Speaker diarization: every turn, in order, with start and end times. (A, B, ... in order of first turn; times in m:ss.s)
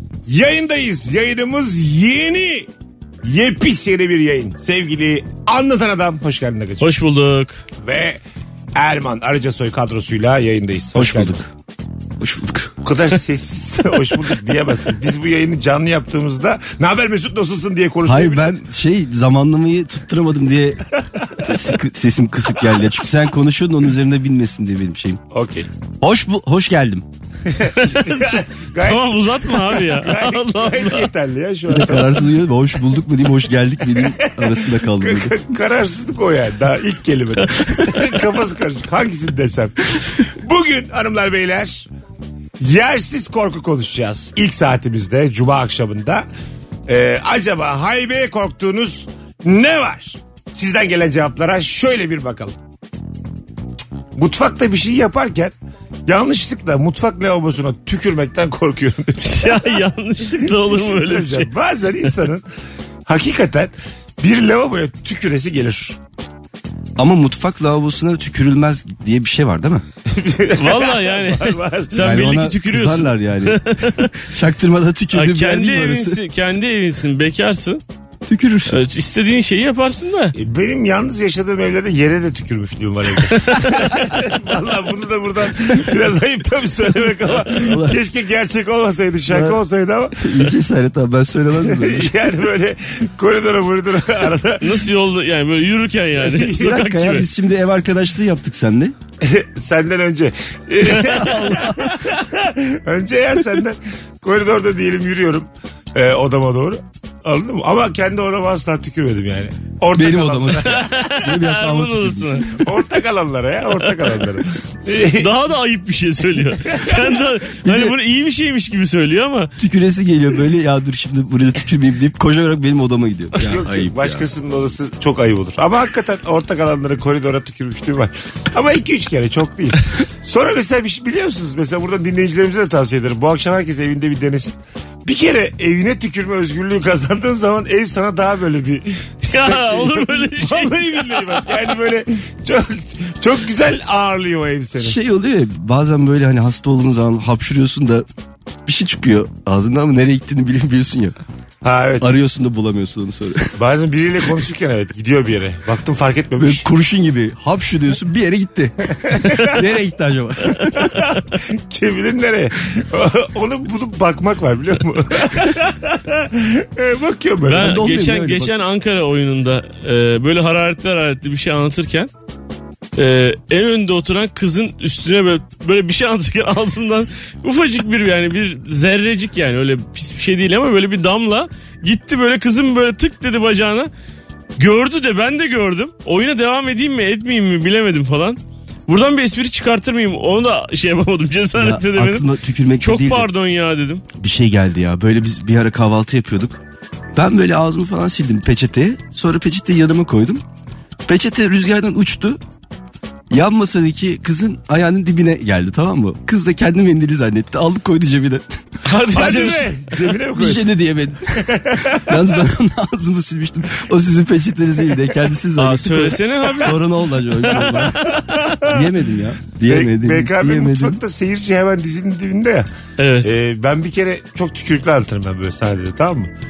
0:00.3-0:02.7 A
0:03.2-0:06.9 A
0:06.8-0:07.6 B
0:07.8-0:08.2 A
0:08.8-0:11.4 A
0:11.0-0:11.5 C
0:12.2-0:12.8 C
0:12.8-0:18.6 A
0:18.0-0:20.9 C
0:21.2-0:21.6 A
0:21.4-0:25.2 C
0:25.3-0:25.7 A
0:26.0-0:27.1 C
0:27.5-0:32.3 A
0:27.7-0:31.1 B
0:31.7-0:35.4 C
0:33.9-0:41.9 A
0:42.6-0:46.3 A
0:46.9-0:52.5 A
0:54.2-0:55.5 A
0:56.1-0:59.8 A
0:59.2-1:01.5 B
1:00.4-1:02.4 A
1:03.1-1:06.0 A
1:07.0-1:09.8 C
1:10.1-1:12.1 A
1:10.6-1:14.1 B
1:12.0-1:16.2 C
1:15.1-1:17.8 B
1:18.2-1:18.8 C
1:18.7-1:20.4 B
1:20.4-1:30.5 A
1:23.2-1:24.1 B
1:27.3-1:28.0 C
1:29.3-1:29.6 C
1:30.2-1:32.1 C
1:31.6-1:34.8 A
1:34.6-1:37.3 B
1:36.2-1:36.8 A
1:36.5-1:39.0 C
1:39.2-1:51.0 A
1:40.8-1:42.0 C
1:50.0-1:52.5 C
1:50.6-1:52.5 B
1:52.4-1:55.3 A
1:55.2-1:59.5 B
1:56.6-1:57.2 A
1:57.6-1:58.0 C
1:59.6-2:04.3 C
2:03.4-2:25.0 A
2:19.2-2:21.4 B
2:24.8-2:28.1 C
2:28.7-2:31.2 C
2:31.6-2:32.1 A
2:32.0-2:33.6 C
2:33.6-2:36.7 A
2:36.4-2:40.9 C
2:39.1-2:39.6 A
2:39.2-2:39.6 B
2:40.7-2:47.8 A
2:47.4-2:52.1 B
2:47.5-2:48.5 C
2:53.0-3:03.9 B
3:04.6-3:12.3 B
3:11.6-3:13.3 C
3:12.8-3:14.0 B
3:14.2-3:16.6 C
3:17.2-3:20.4 C
3:21.0-3:22.4 C
3:23.3-3:28.6 C
3:28.8-3:29.7 B
3:29.1-3:30.7 A
3:30.3-3:41.0 C
3:31.4-3:32.4 A
3:35.6-3:36.8 B
3:37.4-3:38.9 A
3:39.7-3:42.7 A
3:43.0-3:43.3 B
3:43.2-3:46.3 A